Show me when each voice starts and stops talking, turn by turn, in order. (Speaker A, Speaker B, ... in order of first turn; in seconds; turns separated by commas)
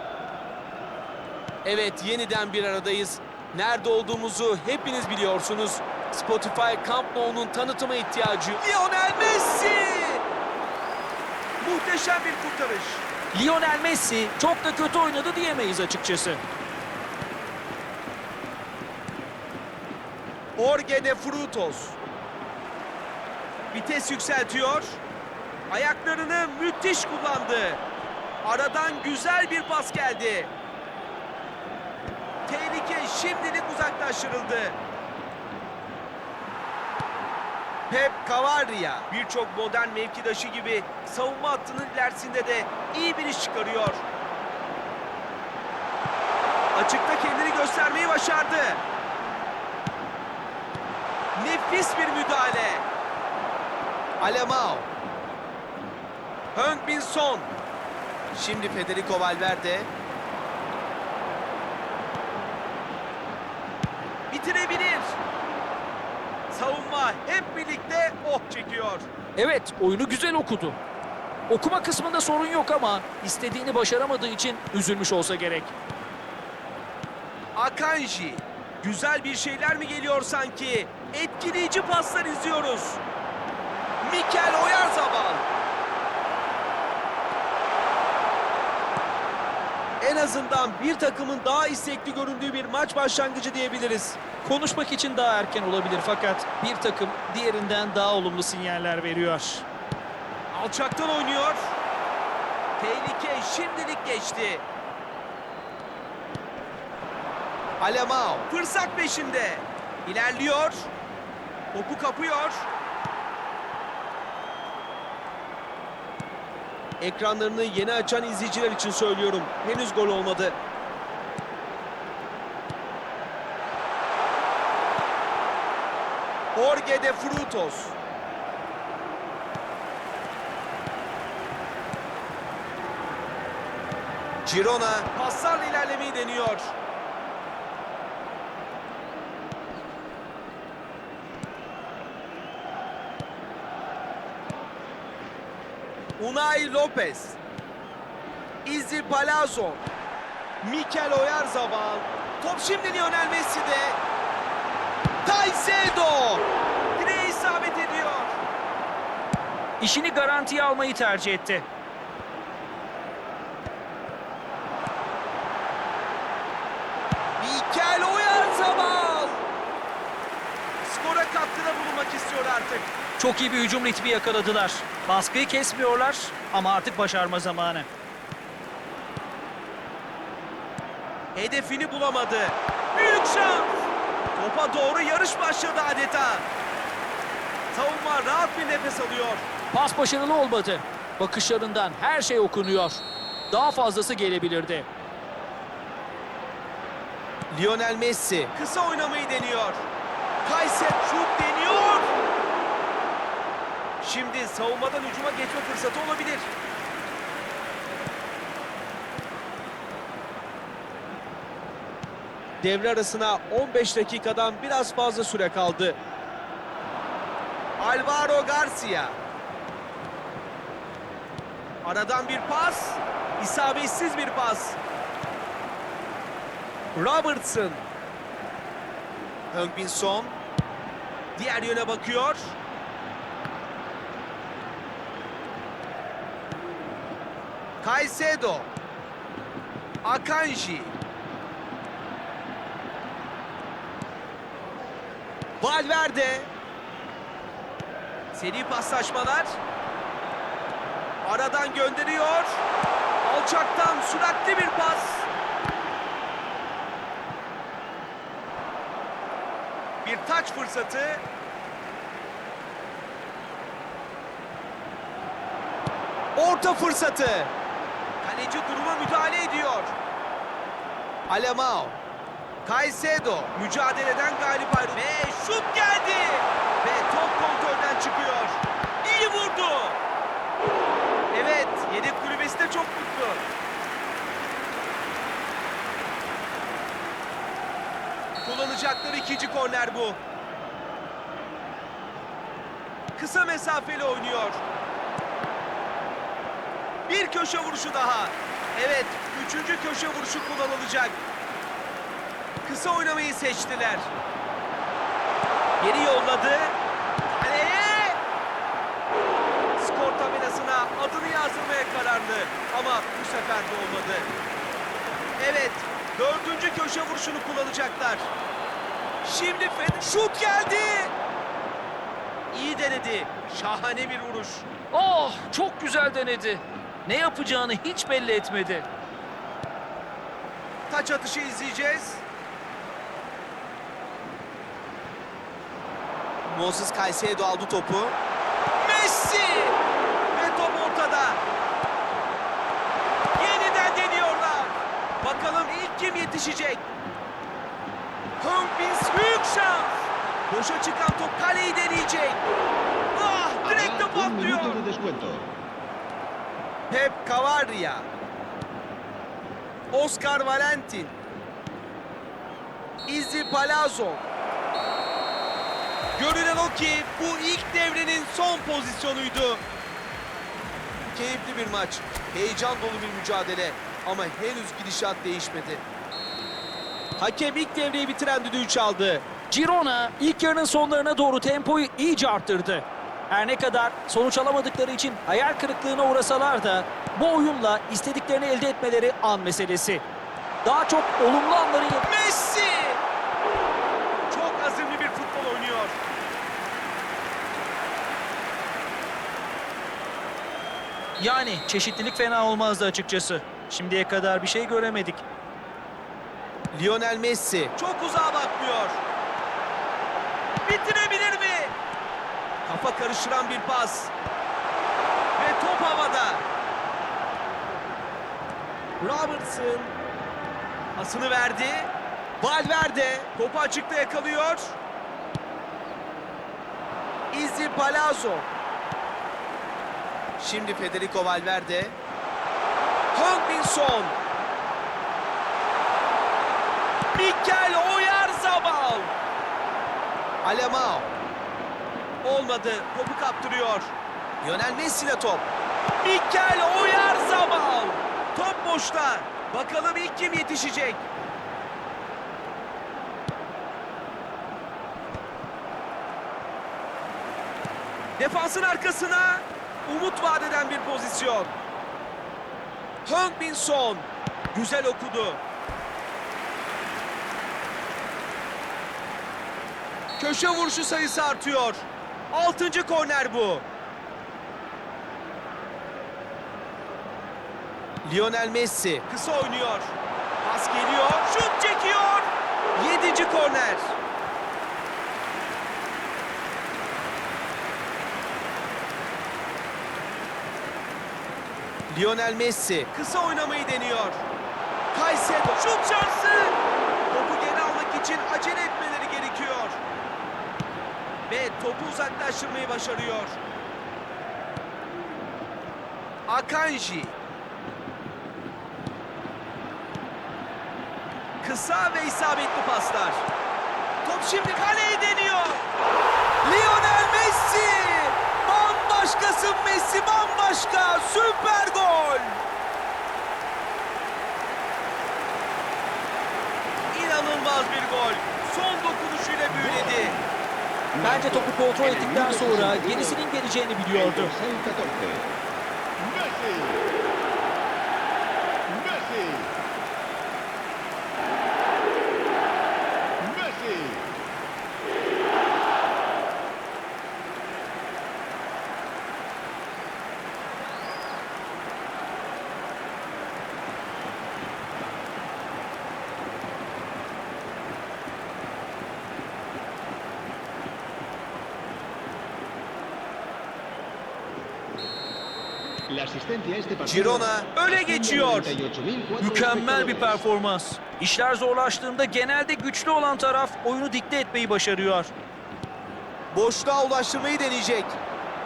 Speaker A: 1.6-10.2, Speaker A: 11.6-13.1, Speaker B: 13.3-16.4, Speaker A: 20.6-22.0, Speaker A: 23.7-25.0, Speaker A: 25.7-27.8, Speaker A: 28.4-30.5, Speaker A: 32.5-34.8, Speaker A: 37.9-44.0, Speaker A: 46.7-48.8, Speaker A: 51.3-52.9, Speaker A: 54.2-54.9, Speaker A: 56.5-57.5, Speaker A: 58.3-59.9, Speaker A: 64.3-65.2, Speaker A: 66.5-69.1, Speaker B: 69.4-70.8, Speaker B: 71.5-75.7, Speaker A: 77.5-83.0, Speaker A: 84.0-85.5, Speaker A: 90.0-94.2, Speaker B: 94.4-99.6, Speaker A: 100.5-101.7, Speaker A: 102.8-104.6, Speaker A: 107.8-110.9, Speaker A: 111.7-112.7, Speaker A: 117.0-120.6, Speaker A: 126.5-128.0, Speaker A: 134.4-136.7, Speaker A: 146.2-147.4, Speaker A: 148.6-149.8, Speaker A: 150.6-154.0, Speaker A: 155.2-156.4, Speaker A: 156.9-158.4, Speaker B: 159.8-161.6, Speaker A: 167.4-169.4, Speaker A: 170.8-172.9, Speaker B: 173.2-177.9, Speaker A: 181.3-186.5, Speaker A: 187.7-189.4, Speaker B: 189.7-194.9, Speaker A: 197.5-199.8, Speaker A: 200.4-202.1, Speaker A: 204.0-206.5, Speaker A: 212.6-216.0, Speaker A: 217.8-219.2, Speaker A: 221.8-224.8, Speaker A: 226.9-227.8, Speaker A: 229.5-230.4, Speaker A: 231.3-232.6, Speaker A: 237.8-238.7, Speaker A: 240.0-240.9, Speaker A: 245.6-246.5, Speaker A: 248.3-249.6, Speaker A: 251.2-252.6, Speaker A: 253.2-255.3, Speaker A: 260.0-261.2, Speaker A: 266.4-267.5, Speaker A: 268.2-269.9, Speaker A: 271.3-272.0, Speaker A: 272.6-280.0, Speaker A: 281.3-283.4, Speaker A: 288.4-290.2, Speaker A: 293.1-294.6, Speaker A: 297.1-301.2, Speaker A: 302.6-304.1, Speaker A: 305.8-306.7, Speaker A: 307.3-308.2, Speaker A: 309.8-314.3, Speaker A: 315.4-318.3, Speaker A: 319.2-321.1, Speaker A: 322.5-324.7, Speaker B: 324.9-328.9, Speaker A: 330.9-332.2, Speaker A: 336.4-338.2, Speaker A: 338.8-339.8, Speaker A: 340.3-341.4, Speaker A: 343.4-346.8, Speaker A: 348.4-352.4, Speaker A: 353.1-354.8, Speaker C: 353.6-355.5, Speaker A: 356.9-358.1, Speaker A: 359.9-361.1, Speaker A: 363.1-364.3, Speaker A: 366.1-369.6, Speaker A: 371.1-375.8, Speaker A: 377.2-379.2, Speaker B: 379.5-390.0, Speaker B: 390.6-392.1, Speaker A: 392.0-393.0, Speaker A: 394.3-396.0, Speaker B: 401.2-405.2, Speaker A: 406.7-409.0, Speaker A: 410.6-411.7, Speaker A: 412.6-414.1, Speaker A: 415.4-416.4, Speaker A: 419.0-419.9, Speaker A: 420.9-424.8, Speaker A: 427.3-428.5, Speaker A: 430.4-431.9, Speaker A: 433.1-434.2, Speaker A: 437.1-439.1, Speaker A: 440.4-441.1, Speaker A: 442.2-445.5, Speaker A: 446.0-451.1, Speaker A: 458.2-461.5, Speaker A: 463.0-465.4, Speaker A: 470.2-473.6, Speaker A: 478.0-484.0, Speaker A: 491.9-494.2, Speaker A: 494.9-496.6, Speaker A: 497.1-499.8, Speaker A: 501.3-503.4, Speaker A: 506.3-507.2, Speaker A: 511.4-513.3, Speaker A: 514.0-515.7, Speaker A: 516.4-522.4, Speaker A: 526.9-530.2, Speaker C: 529.5-530.3, Speaker C: 530.9-533.2, Speaker B: 531.0-534.3, Speaker C: 533.9-535.3, Speaker C: 536.0-536.8, Speaker C: 538.7-539.5, Speaker C: 543.2-544.0, Speaker C: 565.9-570.2, Speaker A: 566.8-568.5, Speaker B: 569.2-575.1, Speaker A: 576.3-578.0